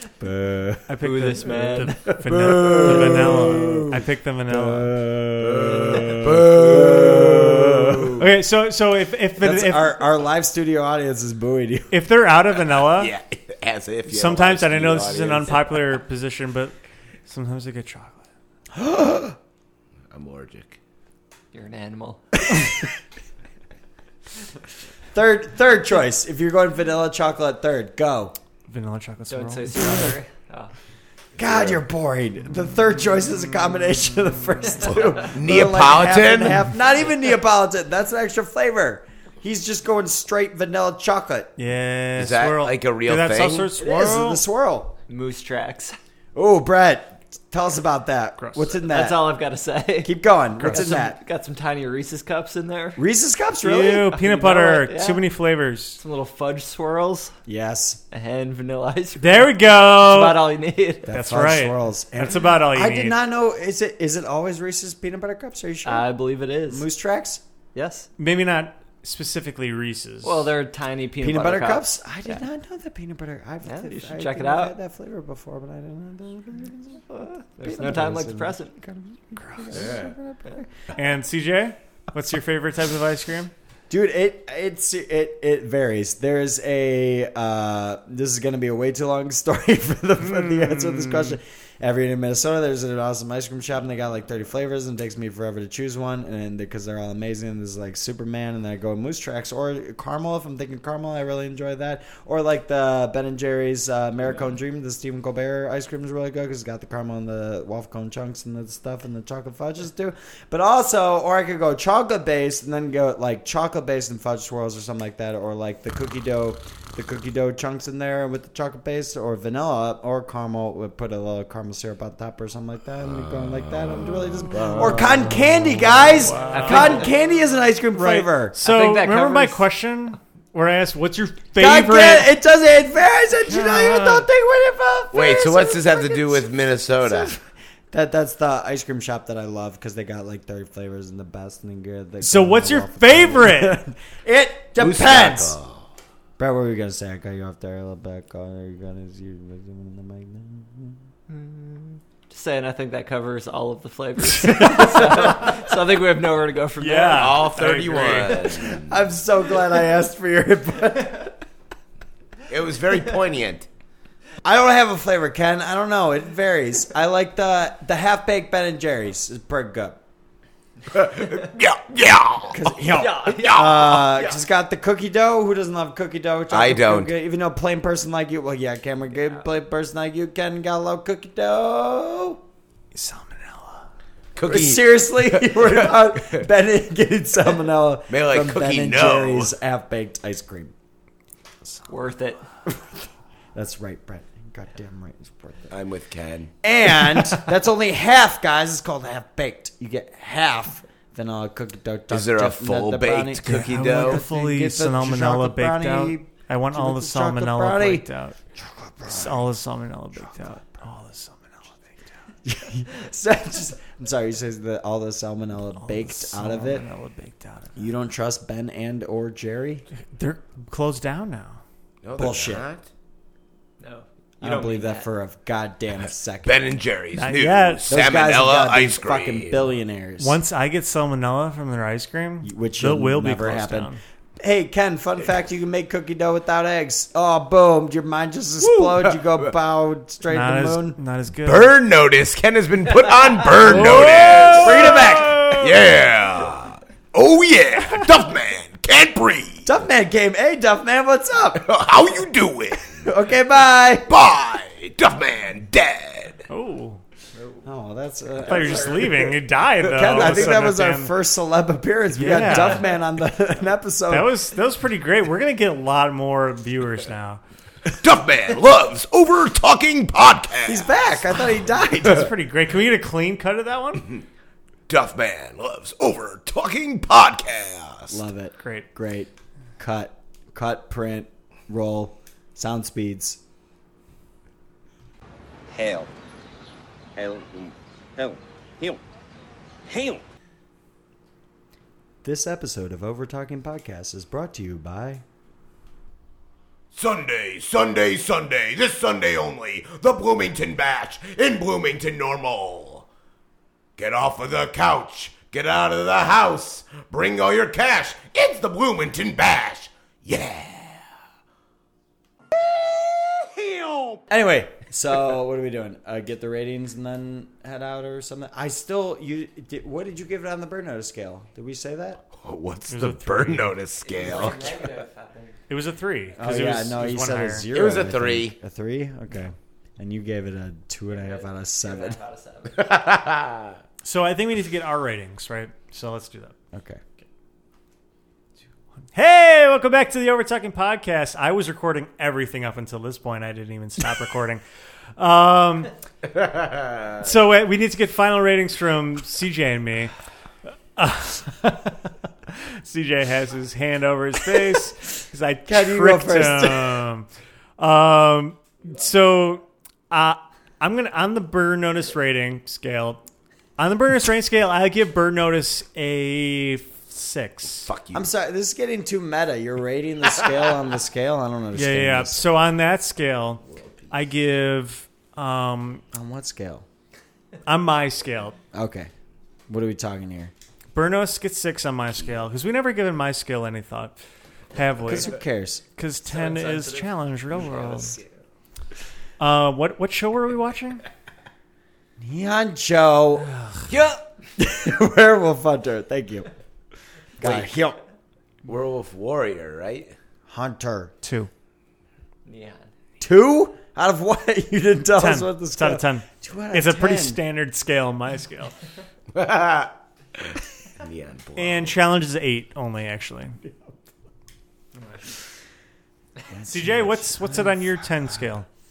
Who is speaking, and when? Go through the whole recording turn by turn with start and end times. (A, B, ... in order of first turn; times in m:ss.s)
0:00.2-0:00.9 A
0:00.9-0:05.0 B
0:01.0-0:02.1 C
0:02.3-0:08.2 A
0:02.7-0:03.3 D
0:05.4-0:08.3 D
0:08.2-0:10.0 B
0:09.4-0:11.9 A
0:11.9-0:13.1 B
0:12.8-0:15.9 D
0:14.1-0:18.3 B
0:18.7-0:19.4 A
0:20.1-0:20.8 D
0:21.5-0:22.2 C
0:22.5-0:22.9 A
0:25.1-0:28.4 A
0:28.7-0:30.2 B
0:29.3-0:30.7 C
0:31.4-0:41.5 A
0:31.4-0:31.8 D
0:35.2-0:36.7 D
0:41.6-0:44.4 B
0:42.2-0:43.7 D
0:43.8-0:45.0 A
0:45.1-0:46.0 C
0:46.4-0:49.4 A
0:48.4-0:48.7 B
0:48.9-0:53.0 C
0:50.0-0:51.2 A
0:50.6-0:50.9 B
0:53.0-0:54.1 A
0:53.6-0:56.0 B
0:54.0-0:55.2 C
0:56.0-0:57.4 C
0:57.5-0:58.0 A
0:58.1-1:01.1 C
0:59.2-1:00.5 B
1:01.1-1:06.1 A
1:01.1-1:03.2 B
1:05.8-1:06.9 C
1:06.7-1:07.4 A
1:07.7-1:08.1 C
1:08.2-1:10.5 B
1:10.2-1:12.4 C
1:11.2-1:17.0 A
1:13.6-1:14.8 C
1:17.2-1:18.8 C
1:17.6-1:20.7 A
1:19.4-1:19.7 B
1:19.7-1:20.1 D
1:21.0-1:23.5 B
1:23.9-2:08.6 A
1:30.2-1:31.4 B
2:03.0-2:06.1 D
2:06.2-2:07.1 B
2:06.3-2:07.1 C
2:07.9-2:12.3 B
2:08.6-2:09.6 C
2:11.6-2:25.6 A
2:13.5-2:14.2 B
2:15.1-2:17.3 D
2:22.2-2:23.8 B
2:24.8-2:25.9 D
2:26.4-2:31.0 A
2:31.3-2:37.5 C
2:34.4-2:35.3 B
2:36.8-2:38.6 B
2:37.1-2:39.0 D
2:38.5-2:41.4 A
2:42.5-2:43.7 D
2:44.4-2:50.0 A
2:50.9-2:54.4 D
2:52.5-3:02.4 A
2:52.8-2:54.0 C
2:56.5-2:57.1 D
3:02.9-3:03.9 B
3:04.4-3:06.4 D
3:04.4-3:10.7 A
3:08.1-3:09.5 D
3:11.9-3:12.4 C
3:12.7-3:15.7 A
3:15.7-3:16.5 D
3:16.6-3:28.1 A
3:22.1-3:24.2 D
3:23.4-3:28.4 B
3:28.7-3:29.5 A
3:29.0-3:32.0 B
3:32.4-3:36.8 A
3:35.8-3:37.9 B
3:37.8-3:39.8 A
3:40.1-3:41.6 B
3:42.0-3:42.9 D
3:42.2-3:42.6 A
3:43.8-3:45.1 C
3:44.4-3:46.8 A
3:46.4-3:49.7 D
3:47.2-3:48.0 B
3:47.9-3:50.4 A
3:50.2-3:54.0 B
3:52.4-4:01.0 A
3:58.6-3:59.2 D
4:00.3-4:01.8 B
4:01.4-4:09.7 D
4:03.6-4:05.9 B
4:03.7-4:05.5 A
4:09.6-4:11.7 A
4:11.6-4:13.1 D
4:12.9-4:14.1 A
4:14.1-4:16.5 D
4:16.5-4:17.0 B
4:17.6-4:24.3 A
4:18.4-4:21.1 B
4:20.0-4:20.3 D
4:22.1-4:23.0 B
4:24.1-4:27.4 B
4:27.9-4:31.0 D
4:30.7-4:32.3 A
4:31.9-4:34.1 B
4:34.9-4:38.2 D
4:38.1-4:43.4 A
4:38.6-4:38.9 B
4:45.7-4:46.1 E
4:47.2-4:49.0 E
4:49.9-4:50.2 E
4:52.2-4:55.2 A
4:56.9-5:03.1 D
5:04.0-5:11.0 D
5:14.3-5:22.2 A
5:22.4-5:24.9 D
5:22.9-5:23.7 B
5:24.0-5:25.6 C
5:25.7-5:27.7 B
5:26.4-5:32.2 A
5:27.7-5:28.6 D
5:31.2-5:32.9 C
5:32.8-5:33.8 D
5:34.0-5:36.6 B
5:36.7-5:37.0 A
5:39.1-5:44.6 B
5:45.2-5:45.9 B
5:46.4-5:47.2 D
5:47.2-5:50.1 B
5:51.0-6:03.2 B
5:55.7-5:57.0 A
6:03.8-6:07.9 B
6:07.9-6:08.3 D
6:08.1-6:12.5 A
6:11.7-6:16.0 B
6:16.1-6:16.8 A
6:17.7-6:18.6 B
6:18.7-6:19.1 A
6:19.7-6:20.5 A
6:20.9-6:24.2 B
6:24.7-6:25.4 B
6:25.1-6:25.8 A
6:26.0-6:28.2 B
6:26.2-6:28.3 C
6:29.4-6:31.0 B
6:32.2-6:33.5 A
6:33.9-6:34.2 C
6:34.6-6:36.5 A
6:37.4-6:38.0 A
6:37.4-6:37.7 D
6:38.6-6:40.2 D
6:40.5-6:41.1 A
6:41.2-6:41.5 B
6:42.5-6:42.9 C
6:43.2-6:47.4 A
6:45.2-6:48.8 B
6:49.3-6:52.0 D
6:51.6-6:53.6 B
6:56.5-6:57.6 A
6:56.7-6:58.7 B